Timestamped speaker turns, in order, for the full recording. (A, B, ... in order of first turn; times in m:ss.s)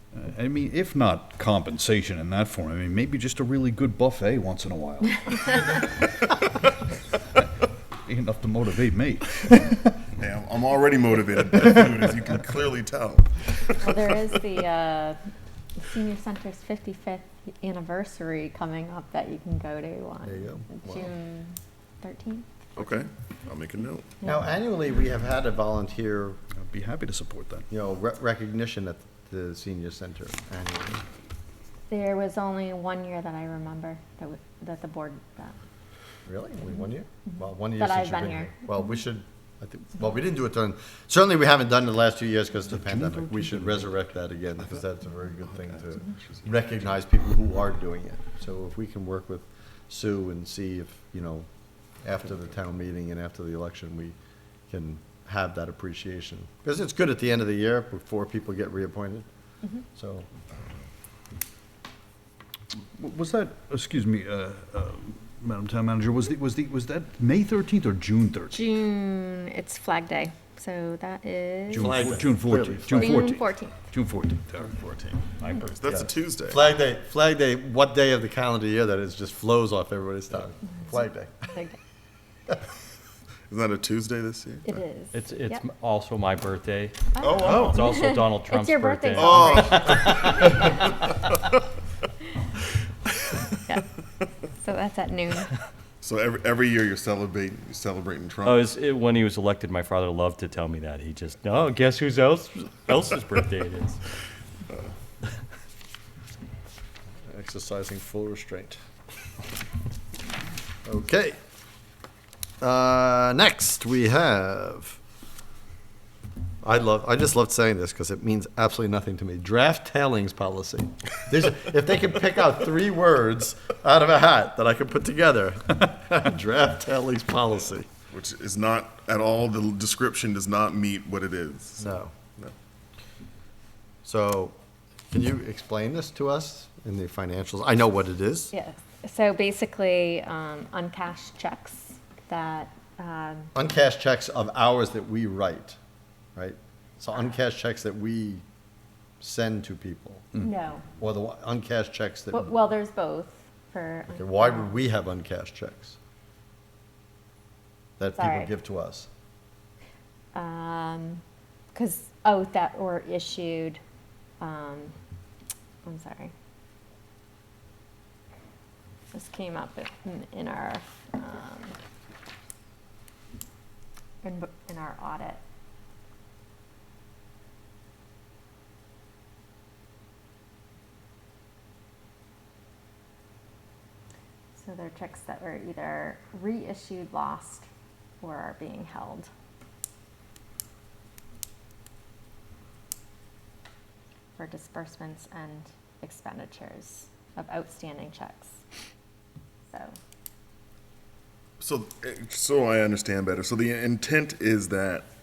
0:00.1-0:06.3 A
0:08.0-0:10.0 A
0:10.2-0:14.1 B
0:13.8-0:15.2 C
0:15.8-0:22.5 C
0:20.2-0:21.1 D
0:22.8-0:24.2 B
0:24.2-0:26.4 D
0:26.6-0:27.6 A
0:27.7-0:31.0 D
0:31.9-0:35.6 C
0:36.2-0:51.4 D
0:37.3-0:38.6 C
0:42.7-0:43.8 A
0:45.4-0:46.9 B
0:52.0-0:54.1 D
0:54.7-0:59.2 D
1:00.0-1:00.3 D
1:03.0-1:08.6 A
1:08.5-1:12.1 C
1:11.7-1:14.7 A
1:11.7-1:13.1 D
1:12.9-1:13.8 C
1:14.6-1:16.6 B
1:15.4-1:16.0 E
1:16.5-1:21.5 D
1:23.5-1:24.8 B
1:24.6-1:25.6 C
1:25.1-1:30.1 E
1:27.1-1:31.0 C
1:27.2-1:27.9 B
1:29.2-1:30.8 B
1:34.5-1:35.5 C
1:36.0-1:38.7 B
1:38.4-1:44.0 E
1:47.3-1:48.8 D
1:50.8-1:51.4 D
1:52.6-1:55.0 D
1:56.6-2:07.9 D
2:08.1-2:12.5 B
2:11.8-2:12.1 D
2:14.0-2:14.5 D
2:15.1-2:18.5 D
2:18.5-2:23.5 C
2:23.5-2:25.8 D
2:26.4-2:28.4 D
2:29.2-2:30.3 D
2:30.4-2:30.8 C
2:31.0-2:32.5 D
2:32.3-2:34.7 C
2:34.1-2:36.0 D
2:38.0-2:39.1 D
2:38.1-2:38.5 C
2:40.3-2:41.2 C
2:41.7-2:43.8 C
2:44.4-2:44.9 C
2:45.8-2:46.3 C
2:49.1-2:51.8 C
2:54.2-2:55.4 C
3:04.6-3:07.7 C
3:08.2-3:09.3 C
3:14.4-3:18.6 C
3:19.7-3:20.0 C
3:21.6-3:25.1 B